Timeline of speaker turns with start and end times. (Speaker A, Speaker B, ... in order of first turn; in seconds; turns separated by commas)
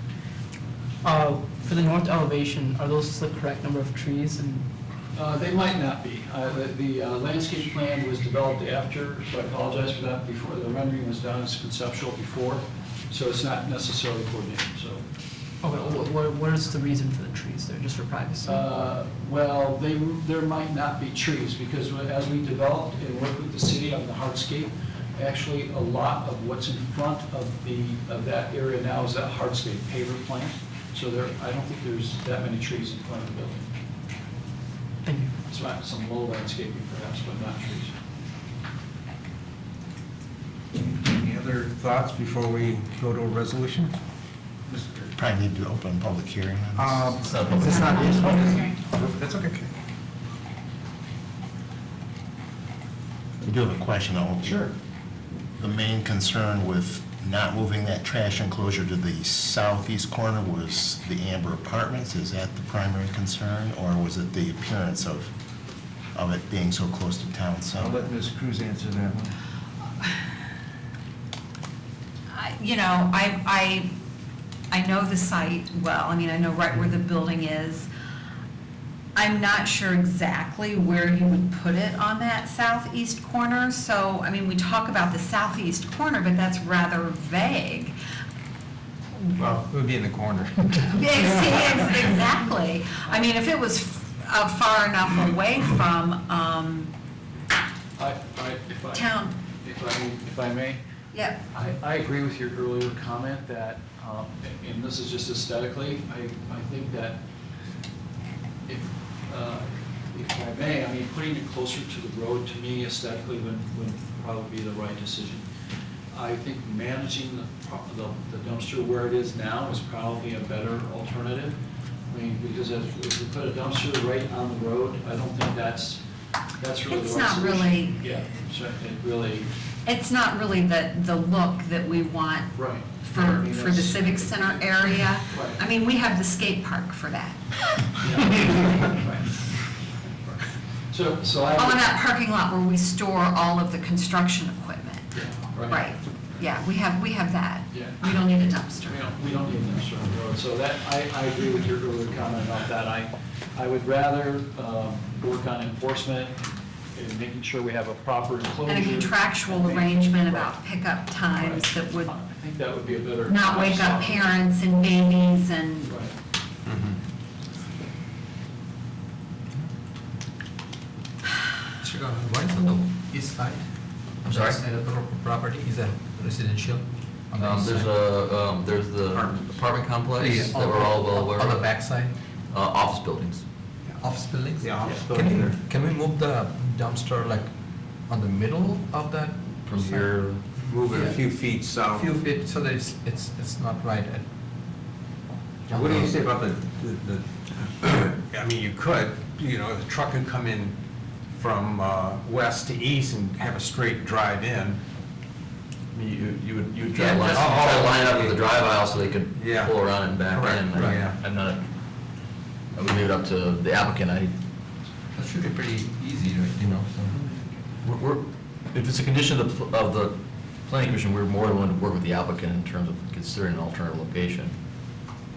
Speaker A: 1.0-4.7, Speaker B: 5.1-15.0, Speaker A: 15.6-18.6, Speaker B: 18.4-33.6, Speaker A: 35.0-35.3, Speaker B: 35.4-37.9, Speaker C: 40.9-43.9, Speaker C: 44.7-45.1, Speaker D: 45.2-47.1, Speaker C: 46.8-49.7, Speaker E: 47.2-48.1, Speaker D: 53.4-54.7, Speaker C: 54.4-54.7, Speaker D: 55.6-65.3, Speaker D: 66.1-68.0, Speaker C: 67.8-69.3, Speaker F: 72.3-73.9, Speaker F: 74.7-77.9, Speaker F: 79.1-87.9, Speaker C: 89.3-91.2, Speaker F: 90.9-96.9, Speaker B: 98.0-100.8, Speaker F: 98.9-99.3, Speaker F: 101.1-101.4, Speaker B: 101.5-107.2, Speaker B: 108.7-115.4, Speaker B: 116.1-121.6, Speaker B: 122.1-126.0, Speaker B: 126.6-129.5, Speaker F: 126.9-128.0, Speaker F: 129.8-137.9, Speaker B: 132.5-135.6, Speaker B: 138.0-139.4, Speaker B: 140.2-142.0, Speaker F: 141.5-145.1, Speaker B: 145.1-145.8, Speaker F: 145.7-148.9, Speaker B: 147.7-148.0, Speaker B: 148.8-160.6, Speaker F: 158.7-162.1, Speaker B: 161.3-164.4, Speaker F: 163.3-165.9, Speaker B: 165.8-166.1, Speaker C: 166.7-167.0, Speaker G: 171.8-173.6, Speaker G: 174.2-178.0, Speaker E: 174.3-174.6, Speaker E: 177.4-181.8, Speaker C: 179.1-179.5, Speaker G: 180.1-182.1, Speaker C: 180.2-180.5, Speaker E: 182.5-183.4, Speaker G: 184.0-187.5, Speaker C: 184.6-185.6, Speaker G: 188.1-190.0, Speaker E: 189.6-190.4, Speaker C: 189.7-192.2, Speaker G: 190.9-191.2, Speaker G: 191.8-194.2, Speaker G: 195.7-196.2, Speaker C: 195.7-200.8, Speaker C: 201.3-204.8, Speaker E: 205.9-211.6, Speaker C: 206.9-208.4, Speaker C: 209.3-209.8, Speaker C: 210.3-211.2, Speaker G: 210.7-211.0, Speaker E: 212.7-214.3, Speaker G: 215.1-217.4, Speaker E: 217.8-224.5